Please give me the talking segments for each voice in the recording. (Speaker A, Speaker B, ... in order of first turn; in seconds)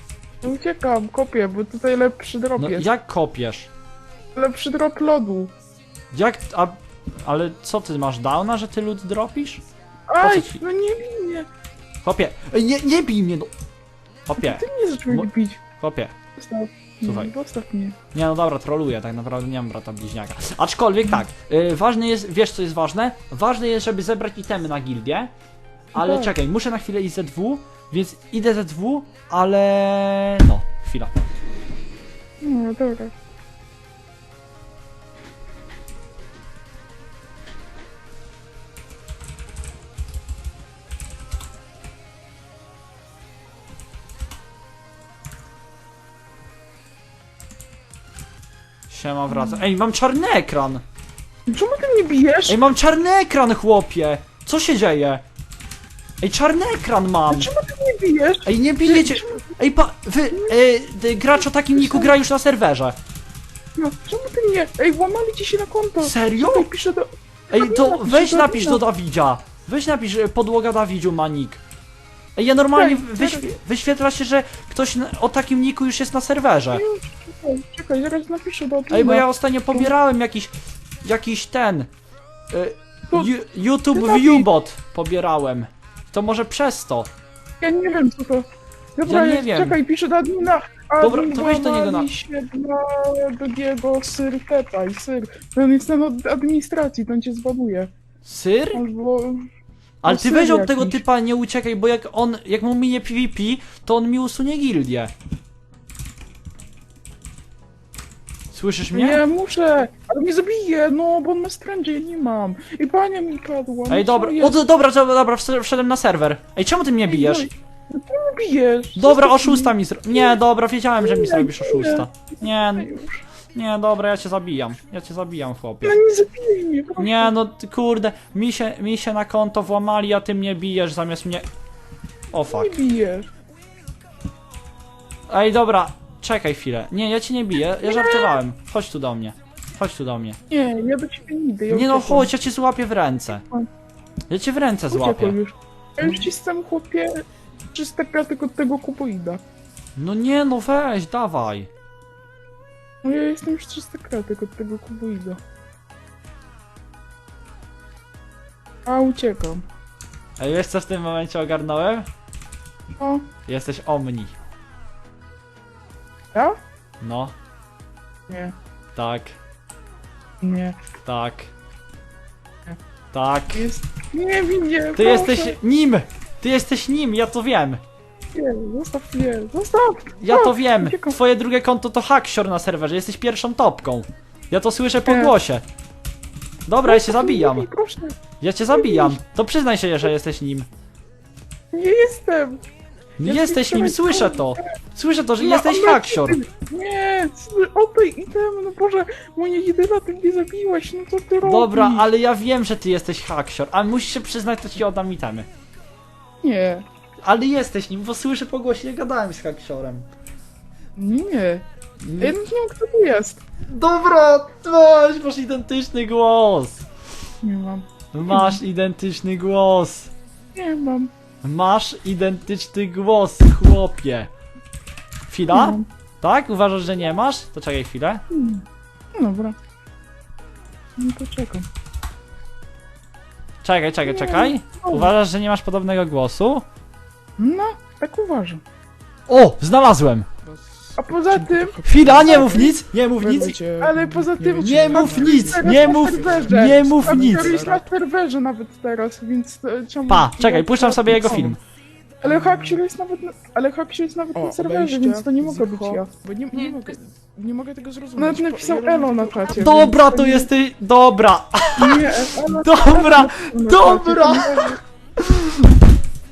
Speaker A: 0.4-2.9, 4.3-5.5, 10.1-11.5, 14.4-15.6, 16.4-18.0, 25.9-26.3, 32.4-33.1, 49.3-49.6, 51.5-52.6, 57.3-59.5, 60.3-60.5, 61.3-62.1, 63.8-68.8, 72.7-73.5, 76.7-79.9, 83.9-84.5, 87.6-97.9, 98.7-99.4, 100.0-101.0, 108.9-114.6, 117.0-120.4, 121.0-123.2, 125.8-127.3, 132.4-133.3, 137.8-138.4, 140.5-142.3, 143.3-143.7, 144.9-149.4, 153.0-155.4, 158.8-159.6, 163.0-163.3, 168.3-168.5, 170.4-170.8, 173.5-175.6, 178.3-181.2, 185.0-185.3, 186.8-188.2, 188.7-189.2, 191.7-192.6, 193.2-194.6, 195.4-202.1, 206.4-206.8, 210.9-211.6, 212.2-213.4, 217.4-218.6, 220.5-221.1, 225.5-225.8, 228.3-228.6, 229.1-229.6, 231.0-231.7, 234.0-235.1, 237.4-238.6, 241.0-242.8, 243.8-251.6, 252.2-256.1, 258.2-260.5, 261.8-264.8
Speaker B: 2.6-3.7, 6.1-9.6, 10.2-10.6, 12.0-13.5, 14.3-16.1, 17.0-17.3, 18.1-25.3, 25.9-31.1, 48.9-50.8, 52.5-55.2, 56.2-57.5, 58.4-63.0, 66.0-66.7, 67.5-71.6, 72.3-76.8, 78.9-81.9, 82.5-87.1, 89.0-89.8, 91.0-92.1, 98.2-98.8, 100.0-105.1, 108.5-109.2, 113.9-117.5, 119.0-122.9, 123.5-126.0, 127.0-131.4, 132.3-132.7, 135.3-140.4, 141.7-143.4, 144.3-145.3, 149.9-151.7, 160.4-162.1, 163.4-164.3, 167.0-167.3, 168.9-169.4, 171.0-171.5, 173.1-173.7, 174.9-177.8, 180.2-185.6, 186.7-187.7, 188.4-190.7, 193.2-196.4, 201.4-205.5, 207.2-210.1, 212.0-212.3, 213.7-216.8, 218.1-220.1, 221.4-224.3, 225.3-228.2, 233.6-236.6, 239.3-240.3, 241.8-243.6, 244.6-247.7, 250.1-251.6, 259.5-265.7
Speaker C: 240.5-247.9, 252.2-252.8, 254.3-260.0